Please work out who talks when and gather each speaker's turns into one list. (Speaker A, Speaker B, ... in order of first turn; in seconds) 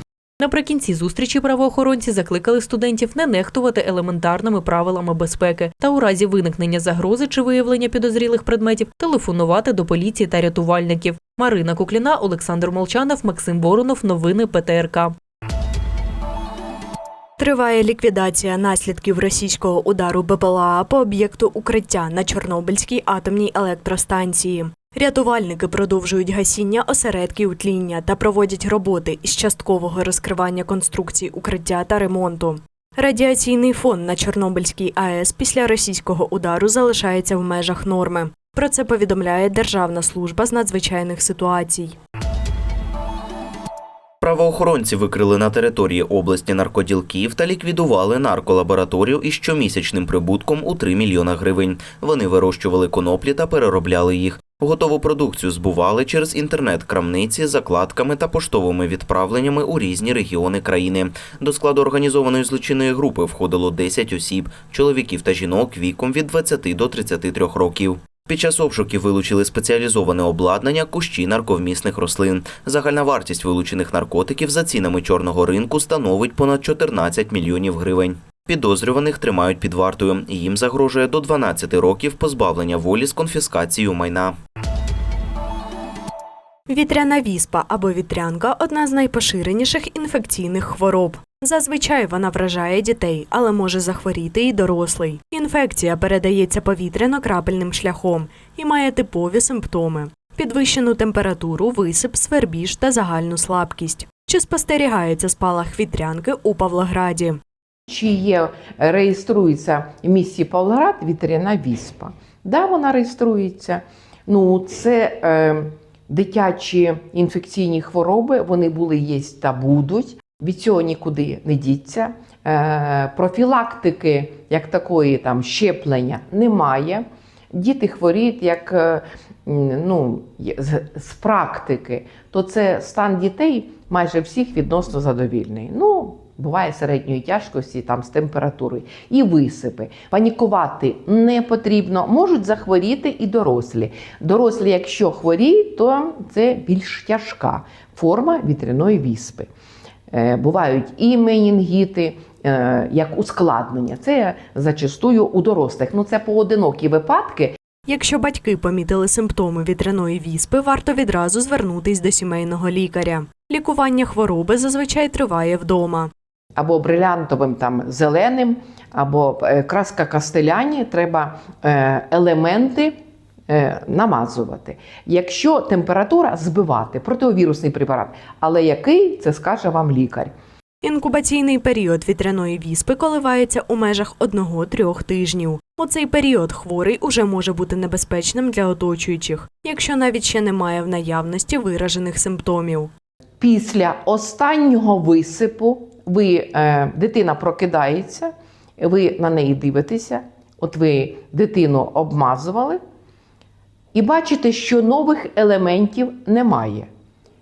Speaker A: 0.4-15.1
Speaker B: 17.4-42.0, 86.7-107.4, 157.9-166.1, 180.8-192.9
Speaker C: 44.2-84.3
Speaker D: 107.9-149.5, 150.1-157.6, 166.6-172.9, 173.5-180.3, 193.4-202.8, 203.9-206.9